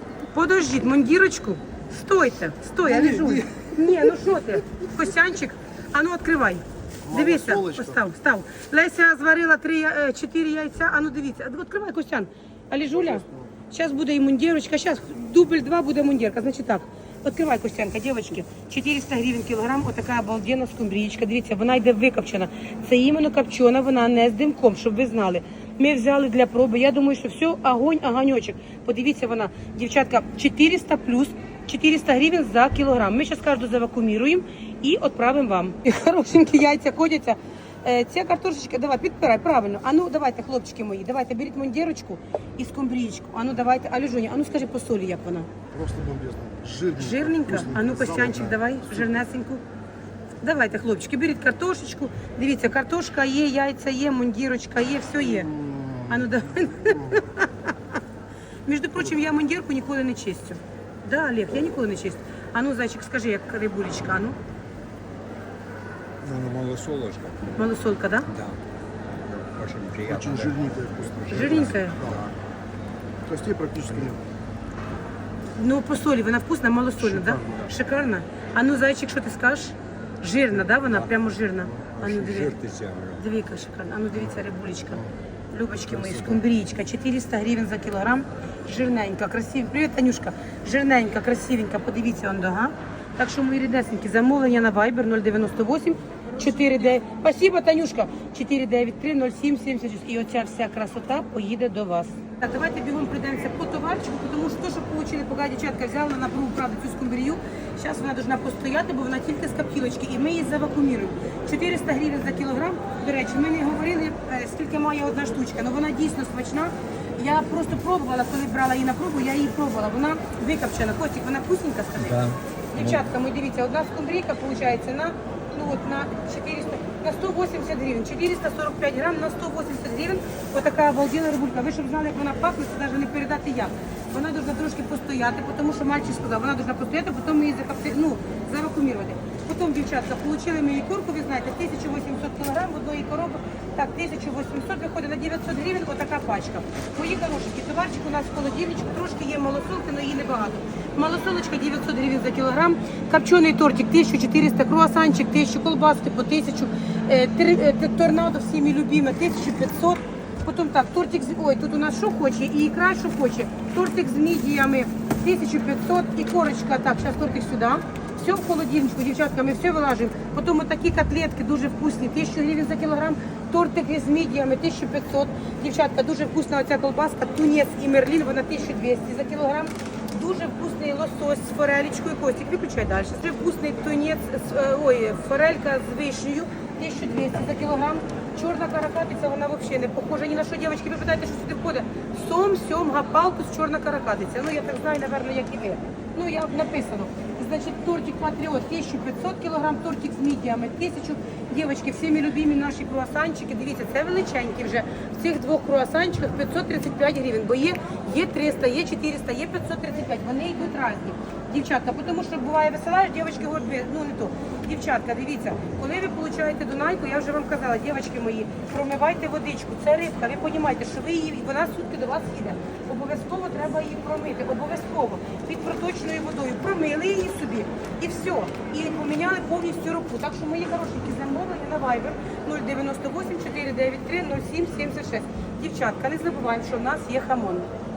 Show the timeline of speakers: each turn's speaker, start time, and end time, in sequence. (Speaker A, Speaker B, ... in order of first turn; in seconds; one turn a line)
Speaker A: 0.3-45.5
Speaker B: 2.9-3.9
Speaker B: 7.1-8.0
Speaker B: 45.7-48.7
Speaker A: 46.8-49.6
Speaker A: 50.4-55.5
Speaker B: 55.4-56.2
Speaker A: 56.1-57.7
Speaker B: 56.8-57.2
Speaker A: 58.6-64.4
Speaker C: 66.2-67.6
Speaker A: 67.6-68.3
Speaker C: 68.3-68.6
Speaker C: 69.1-72.4
Speaker B: 70.1-72.2
Speaker A: 71.3-72.0
Speaker B: 73.2-74.2
Speaker A: 75.6-82.6
Speaker B: 77.0-77.7
Speaker C: 82.0-83.2
Speaker A: 83.2-237.7
Speaker C: 86.0-86.3
Speaker C: 122.0-123.1